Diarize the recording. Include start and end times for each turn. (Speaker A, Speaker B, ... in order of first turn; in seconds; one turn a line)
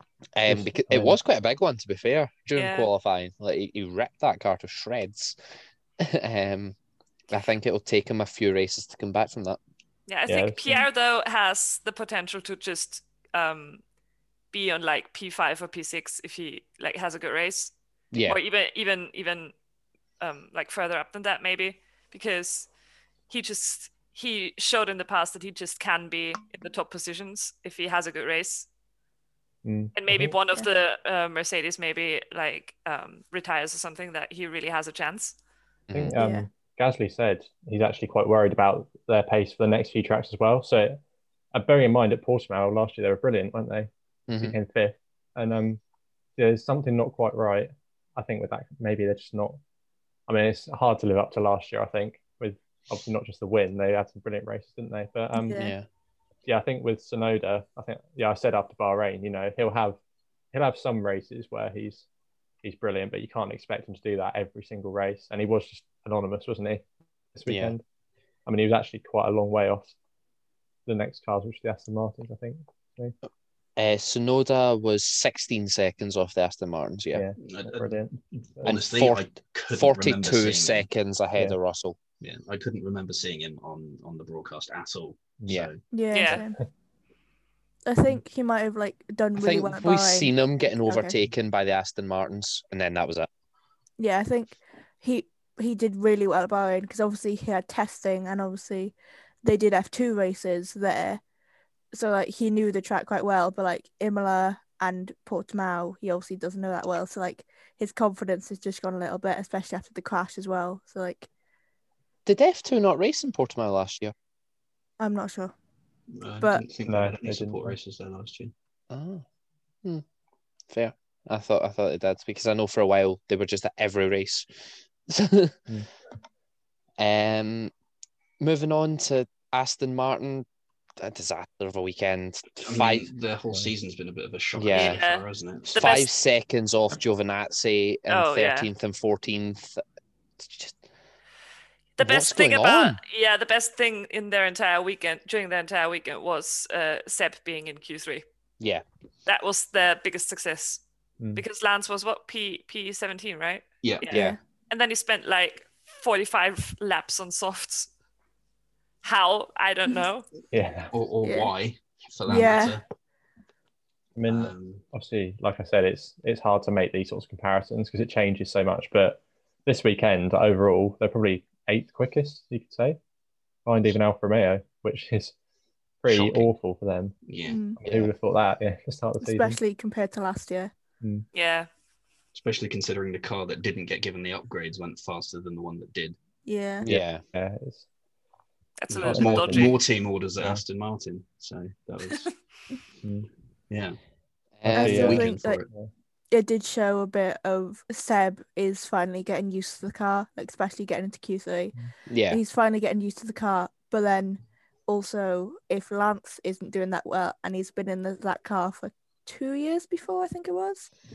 Speaker A: 0.3-5.3
Speaker B: 0.5-1.1
Speaker C: 2.5-2.9
Speaker A: 6.0-6.8
Speaker A: 7.3-9.6
Speaker C: 10.1-13.8
Speaker B: 10.3-10.8
Speaker C: 14.5-17.7
Speaker A: 18.1-18.4
Speaker C: 18.2-19.5
Speaker C: 20.2-22.7
Speaker C: 23.3-28.7
Speaker B: 29.6-30.3
Speaker C: 29.9-35.3
Speaker A: 35.9-36.1
Speaker B: 35.9-41.0
Speaker D: 36.2-36.5
Speaker B: 41.5-45.8
Speaker A: 44.3-44.5
Speaker B: 46.4-49.6
Speaker B: 50.3-55.7
Speaker D: 55.4-55.7
Speaker A: 55.5-55.9
Speaker B: 56.5-60.0
Speaker B: 60.5-62.0
Speaker B: 62.6-67.8
Speaker A: 67.5-67.8
Speaker B: 68.5-69.9
Speaker B: 70.8-73.1
Speaker A: 73.8-77.2
Speaker B: 77.1-78.8
Speaker E: 77.4-80.9
Speaker A: 78.7-82.0
Speaker E: 82.2-85.8
Speaker D: 85.9-86.6
Speaker C: 86.1-86.4
Speaker D: 87.9-90.3
Speaker A: 89.4-93.3
Speaker D: 90.8-91.1
Speaker D: 94.0-101.2
Speaker D: 101.9-111.3
Speaker A: 112.2-114.1
Speaker D: 115.0-115.5
Speaker E: 116.1-118.5
Speaker B: 116.9-117.8
Speaker A: 118.9-119.2
Speaker A: 120.7-124.5
Speaker A: 125.1-125.6
Speaker A: 127.0-127.7
Speaker A: 128.4-130.4
Speaker A: 131.0-133.1
Speaker E: 132.6-135.8
Speaker A: 134.5-135.0
Speaker C: 134.7-136.1
Speaker A: 135.7-139.8
Speaker C: 138.1-138.7
Speaker A: 140.4-140.8
Speaker C: 142.0-148.2
Speaker A: 142.0-143.0
Speaker C: 149.2-150.8
Speaker C: 151.3-157.9
Speaker E: 153.8-154.1
Speaker A: 154.1-154.4
Speaker D: 154.1-154.4
Speaker C: 159.0-160.3
Speaker B: 160.5-160.9
Speaker E: 160.9-162.8
Speaker D: 161.2-161.5
Speaker D: 162.3-162.8
Speaker B: 164.2-173.0
Speaker E: 164.2-164.8
Speaker B: 173.7-175.3
Speaker B: 176.0-177.2
Speaker E: 176.1-176.5
Speaker E: 177.2-177.6
Speaker D: 177.4-177.8
Speaker B: 177.8-179.6
Speaker A: 177.8-178.1
Speaker D: 179.2-180.7
Speaker B: 181.0-181.2
Speaker C: 181.3-181.7
Speaker E: 182.3-186.2
Speaker D: 186.4-186.8
Speaker A: 186.8-187.2
Speaker B: 186.8-187.8
Speaker C: 188.8-189.8
Speaker E: 188.9-192.3
Speaker B: 189.0-189.7
Speaker B: 193.0-193.3
Speaker E: 193.7-194.0
Speaker A: 194.6-195.2
Speaker B: 194.7-195.9
Speaker D: 194.7-195.6
Speaker E: 194.8-195.7
Speaker D: 196.3-201.7
Speaker A: 202.1-202.4
Speaker D: 202.3-210.9